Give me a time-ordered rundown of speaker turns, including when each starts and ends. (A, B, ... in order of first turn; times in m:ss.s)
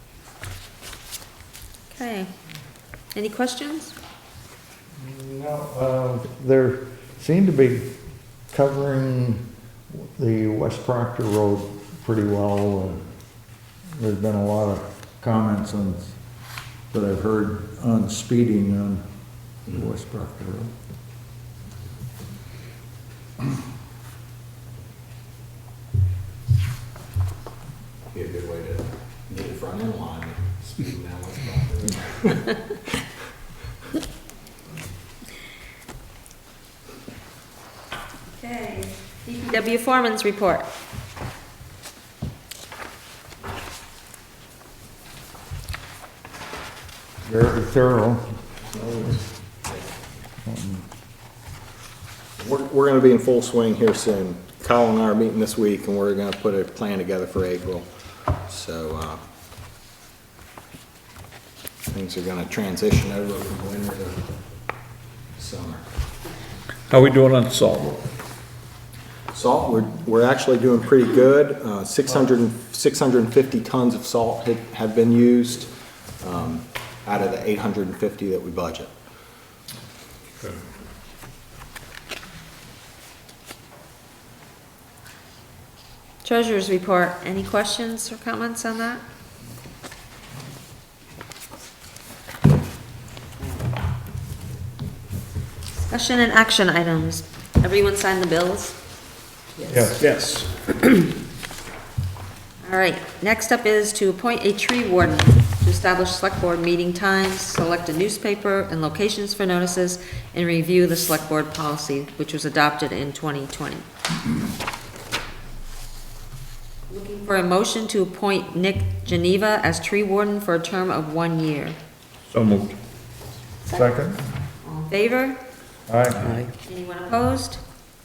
0:01.9-0:02.3 A
0:03.1-0:03.9 A
0:05.0-0:08.0 B
0:08.5-0:13.1 B
0:14.0-0:16.2 B
0:16.9-0:19.0 B
0:19.6-0:20.7 B
0:28.1-0:32.8 C
0:38.3-0:40.7 A
0:47.2-0:48.4 B
0:48.7-0:49.7 C
0:50.4-0:50.8 B
0:52.4-0:57.9 C
0:58.4-0:59.2 C
1:01.9-1:04.2 C
1:05.4-1:05.8 C
1:06.9-1:08.1 D
1:09.3-1:18.9 C
1:20.4-1:20.6 D
1:26.2-1:29.0 A
1:35.7-1:38.8 A
1:39.7-1:40.2 B
1:42.6-1:53.8 A
1:56.9-2:01.8 A
2:02.3-2:02.8 D
2:03.7-2:04.2 B
2:04.6-2:05.4 A
2:05.9-2:06.3 B
2:06.6-2:07.6 A